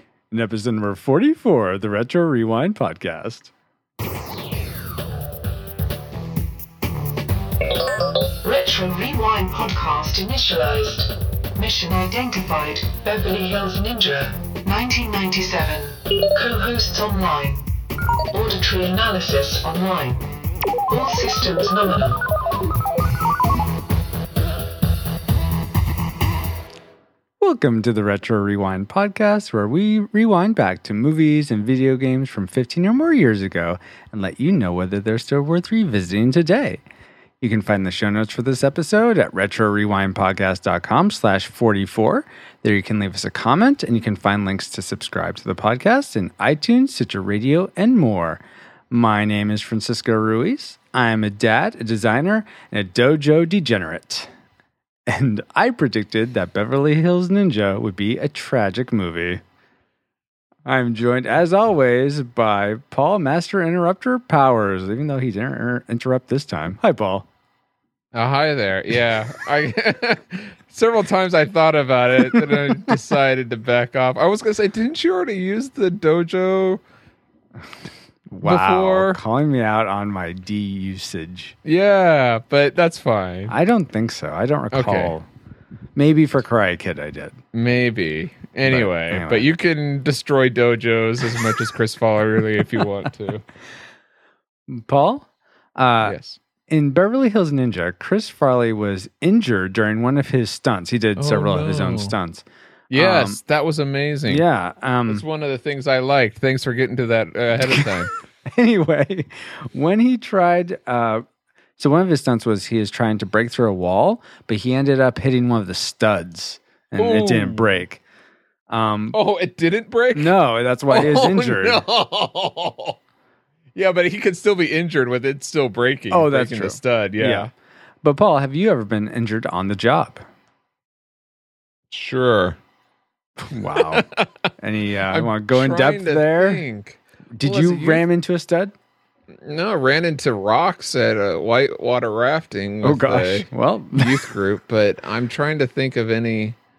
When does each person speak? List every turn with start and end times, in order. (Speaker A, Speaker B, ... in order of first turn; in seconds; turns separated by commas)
Speaker A: 0.3-3.5, Speaker B: 8.4-17.7, Speaker B: 18.3-20.2, Speaker B: 20.9-22.2, Speaker A: 27.4-36.8, Speaker A: 37.4-54.3, Speaker A: 55.1-59.4, Speaker A: 60.6-67.3, Speaker C: 68.1-76.8, Speaker A: 78.3-81.5, Speaker C: 78.4-79.2, Speaker C: 81.7-83.5, Speaker A: 83.5-85.3, Speaker C: 84.7-85.1, Speaker A: 86.0-87.4, Speaker C: 87.5-93.4, Speaker A: 88.7-89.5, Speaker A: 94.7-96.2, Speaker C: 96.0-96.4, Speaker A: 96.7-103.4, Speaker C: 101.2-102.1, Speaker C: 102.9-104.4, Speaker A: 104.3-105.2, Speaker C: 105.1-108.1, Speaker A: 108.5-111.2, Speaker A: 111.8-118.0, Speaker C: 117.0-117.8, Speaker A: 118.7-119.2, Speaker C: 119.1-120.4, Speaker A: 120.1-121.8, Speaker C: 120.9-123.0, Speaker C: 123.8-127.5, Speaker A: 126.1-127.5, Speaker A: 128.0-130.2, Speaker C: 131.9-132.6, Speaker A: 133.4-134.1, Speaker C: 133.5-134.4, Speaker A: 134.6-136.6, Speaker C: 135.1-138.1, Speaker A: 137.3-138.7, Speaker C: 139.4-146.6, Speaker A: 142.8-144.3